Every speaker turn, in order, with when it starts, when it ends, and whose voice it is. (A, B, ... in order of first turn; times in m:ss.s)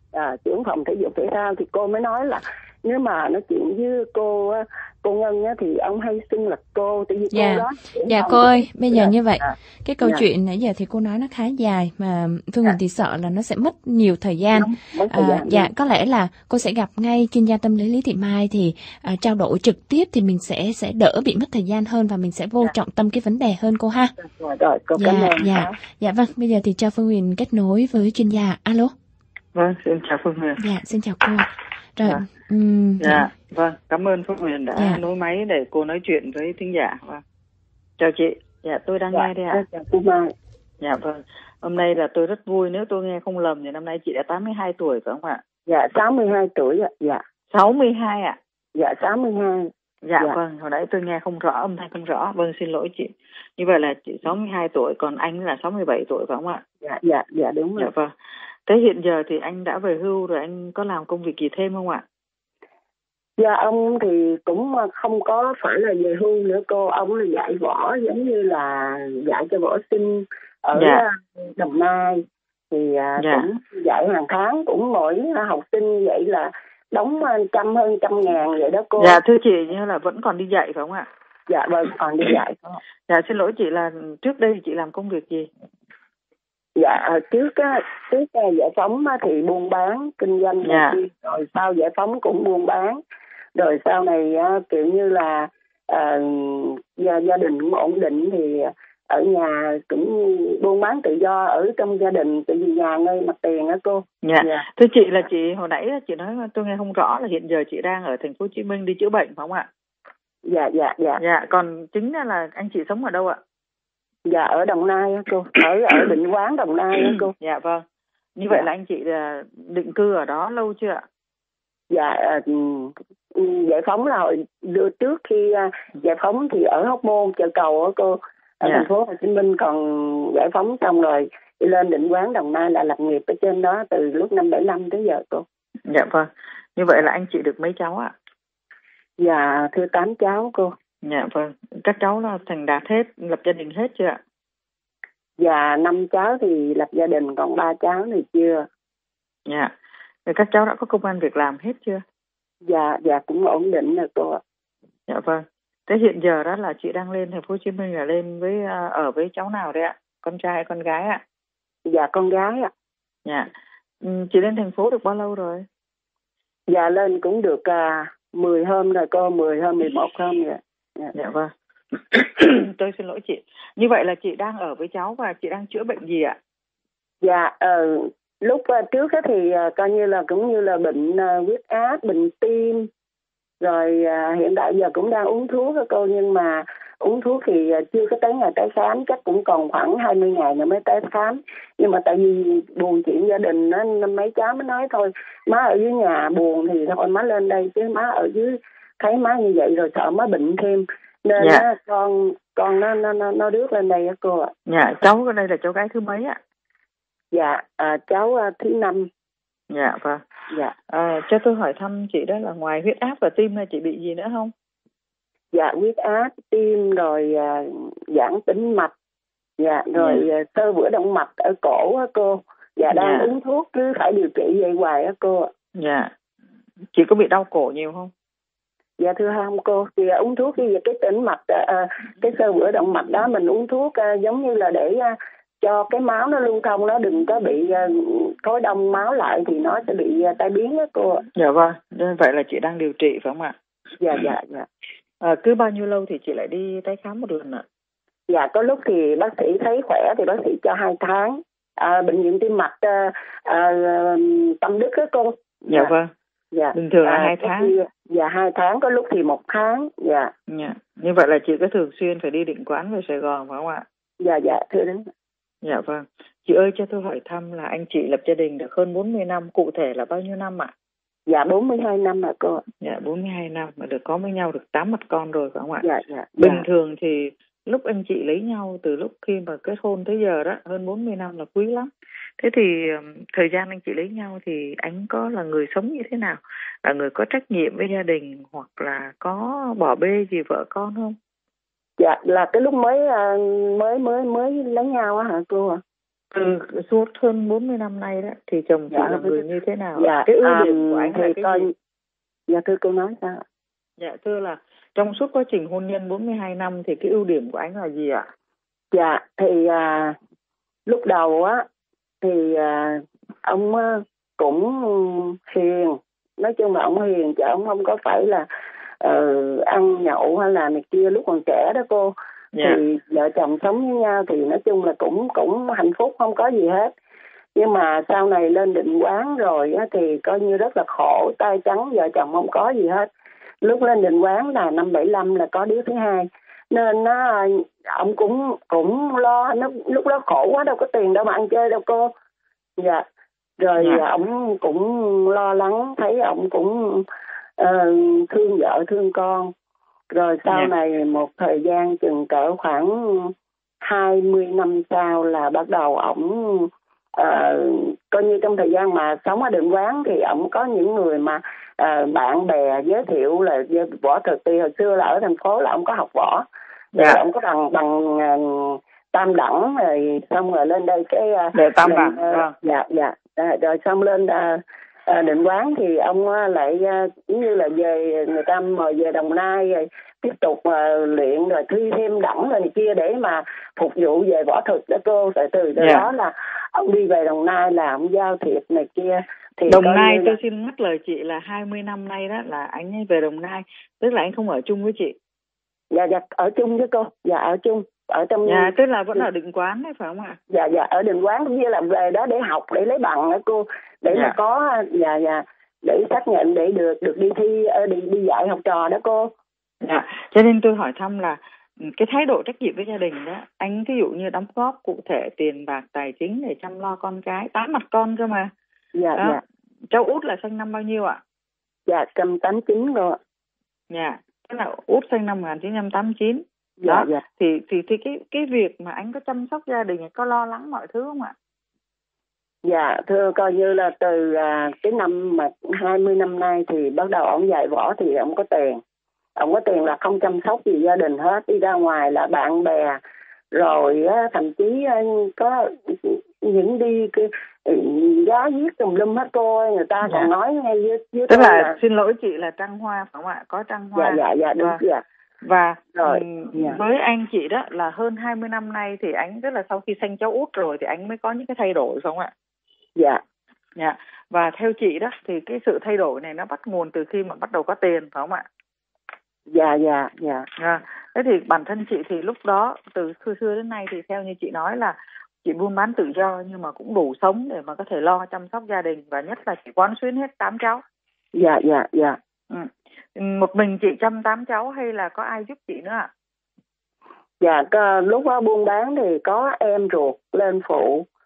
0:00.1-0:10.2 A
0:07.3-0:24.1 B
0:14.5-0:15.7 A
0:24.2-0:25.7 A
0:25.0-0:28.9 B
0:29.5-0:30.6 C
0:30.6-0:33.3 B
0:33.0-0:37.2 C
0:34.8-0:35.0 B
0:38.0-0:39.6 C
0:39.1-0:40.3 A
0:40.8-0:45.4 C
0:45.7-0:47.2 A
0:47.5-0:48.4 C
0:48.7-0:50.4 A
0:50.0-0:56.6 C
0:56.8-0:57.9 A
0:57.8-0:58.1 C
0:58.7-1:02.0 C
1:03.4-1:19.2 A
1:10.8-1:11.0 C
1:13.2-1:13.4 C
1:19.0-1:21.1 C
1:21.5-1:22.8 A
1:23.1-1:25.5 C
1:26.8-1:33.0 A
1:30.6-1:31.0 C
1:33.5-1:44.6 A
1:44.2-1:49.7 C
1:50.4-1:51.2 A
1:51.2-1:53.4 C
1:54.3-1:57.3 A
1:57.1-1:57.8 C
1:58.4-2:01.0 C
2:01.9-2:15.4 A
2:15.9-2:18.1 C
2:19.2-2:20.7 A
2:21.0-2:24.2 C
2:25.4-2:28.6 A
2:29.5-2:29.7 C
2:30.2-2:32.0 C
2:32.6-2:34.4 A
2:35.1-2:41.2 C
2:41.8-2:42.7 A
2:43.2-2:43.5 C
2:44.0-2:45.6 C
2:46.7-2:51.1 A
2:51.1-2:51.5 C
2:52.1-2:56.4 C
2:57.2-3:02.9 A
3:03.6-3:24.5 A
3:21.4-3:21.6 C
3:24.7-3:26.4 C
3:27.3-3:29.1 A
3:29.7-3:30.2 C
3:30.9-3:34.5 C
3:35.5-3:38.9 A
3:39.6-3:45.5 A
3:40.0-3:40.2 C
3:42.9-3:43.3 C
3:45.8-3:46.1 C
3:46.9-3:48.1 C
3:49.0-4:01.2 A
4:01.4-4:03.5 C
4:04.0-4:04.7 A
4:05.2-4:07.6 C
4:08.3-4:15.9 A
4:15.7-4:16.1 C
4:16.5-4:20.3 A
4:16.7-4:17.7 C
4:20.5-4:23.8 C
4:24.2-4:25.1 A
4:25.6-4:30.7 C
4:31.3-4:32.6 A
4:32.8-4:35.8 C
4:35.8-4:36.6 A
4:36.4-4:51.2 C
4:52.0-4:55.8 A
4:56.3-5:01.7 C
4:58.9-4:59.4 A
5:00.0-5:01.7 A
5:02.5-5:03.4 A
5:04.0-5:08.2 C
5:08.9-5:10.2 A
5:10.8-5:11.6 A
5:12.2-5:18.4 A
5:19.0-5:26.9 A
5:22.5-5:22.8 C
5:27.5-5:33.1 A
5:33.6-5:42.1 A
5:42.8-5:43.0 A
5:43.6-5:47.0 A
5:47.6-5:49.5 A
5:50.1-6:30.4 A
6:07.0-6:07.2 C
6:11.5-6:12.5 C
6:25.8-6:26.1 C
6:29.7-6:35.2 C
6:35.9-6:39.2 A
6:38.4-6:40.4 C
6:40.5-6:49.3 A
6:49.8-6:58.5 C
6:58.9-6:59.4 A
6:59.9-7:01.2 C
7:01.8-7:03.2 A
7:03.9-7:11.3 C
7:06.8-7:07.2 A
7:12.6-7:18.8 A
7:19.4-7:23.0 A
7:23.5-7:31.7 A
7:31.3-7:34.8 C
7:34.0-7:35.0 A
7:35.4-7:42.3 C
7:36.0-7:36.8 A
7:43.0-7:43.2 A
7:43.8-7:48.4 C
7:49.5-7:50.5 A
7:50.6-8:00.8 C
8:01.3-8:02.2 A
8:02.5-8:06.1 C
8:07.4-8:11.0 A